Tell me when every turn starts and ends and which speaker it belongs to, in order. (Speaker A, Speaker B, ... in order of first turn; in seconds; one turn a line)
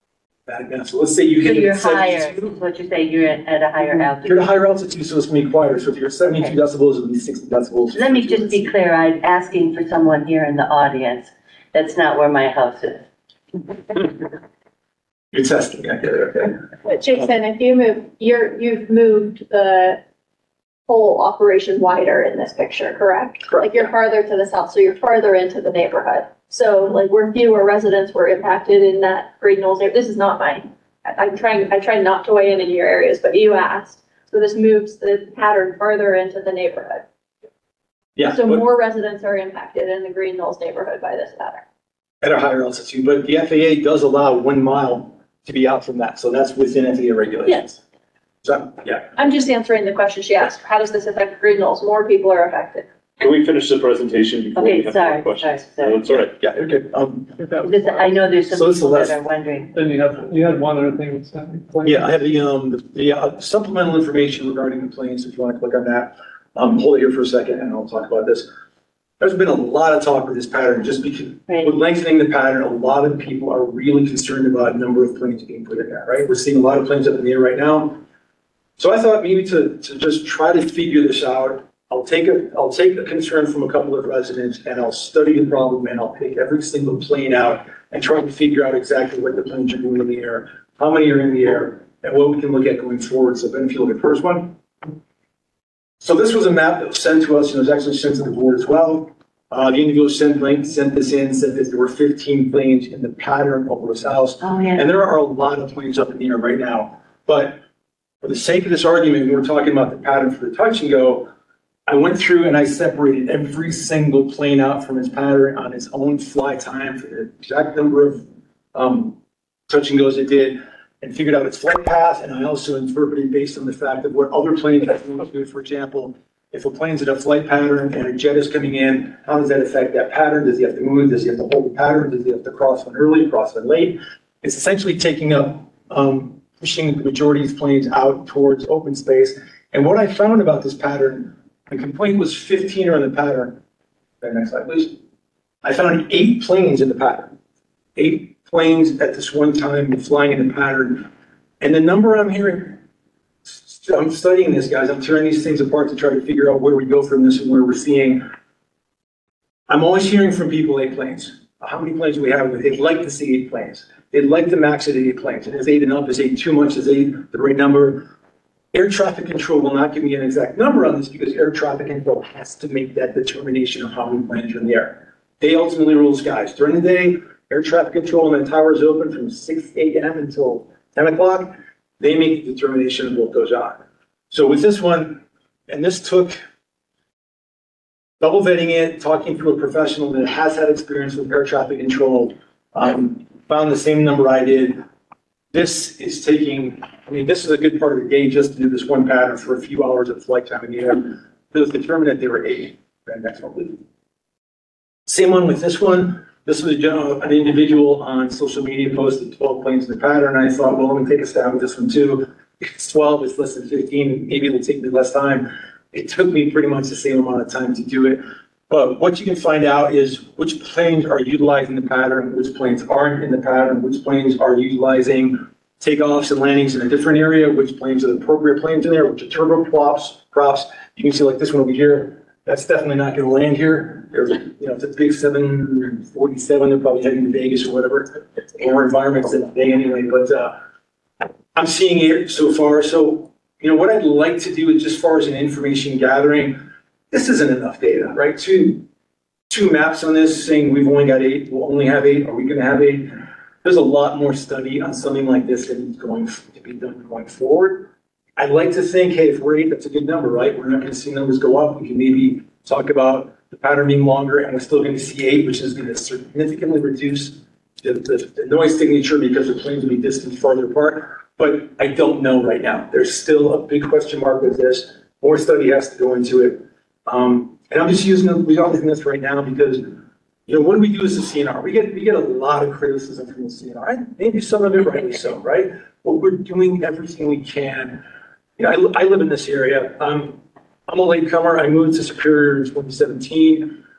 Speaker A: 0.5-2.5
Speaker B: 1.4-4.5
Speaker A: 3.8-8.7
Speaker B: 7.9-13.1
Speaker A: 15.3-16.7
Speaker C: 16.8-20.0
Speaker C: 20.9-37.0
Speaker A: 23.5-23.8
Speaker A: 38.2-38.6
Speaker C: 38.3-41.6
Speaker A: 42.2-47.8
Speaker A: 48.4-49.2
Speaker C: 49.2-52.9
Speaker D: 53.2-56.4
Speaker B: 54.6-56.0
Speaker A: 56.4-57.9
Speaker B: 57.6-59.7
Speaker A: 58.4-59.2
Speaker E: 59.8-62.0
Speaker A: 61.8-68.5
Speaker A: 69.2-78.0
Speaker B: 71.5-71.7
Speaker A: 78.8-94.6
Speaker A: 96.0-107.6
Speaker B: 104.4-104.9
Speaker A: 108.2-111.3
Speaker A: 111.9-143.6
Speaker A: 144.2-145.0
Speaker A: 145.6-147.3
Speaker A: 148.0-152.8
Speaker A: 153.4-158.3
Speaker A: 159.7-168.1
Speaker A: 168.7-186.4
Speaker A: 188.2-194.8
Speaker A: 195.5-203.8
Speaker A: 205.1-240.6
Speaker A: 241.5-248.8
Speaker A: 249.5-288.0
Speaker A: 288.6-293.8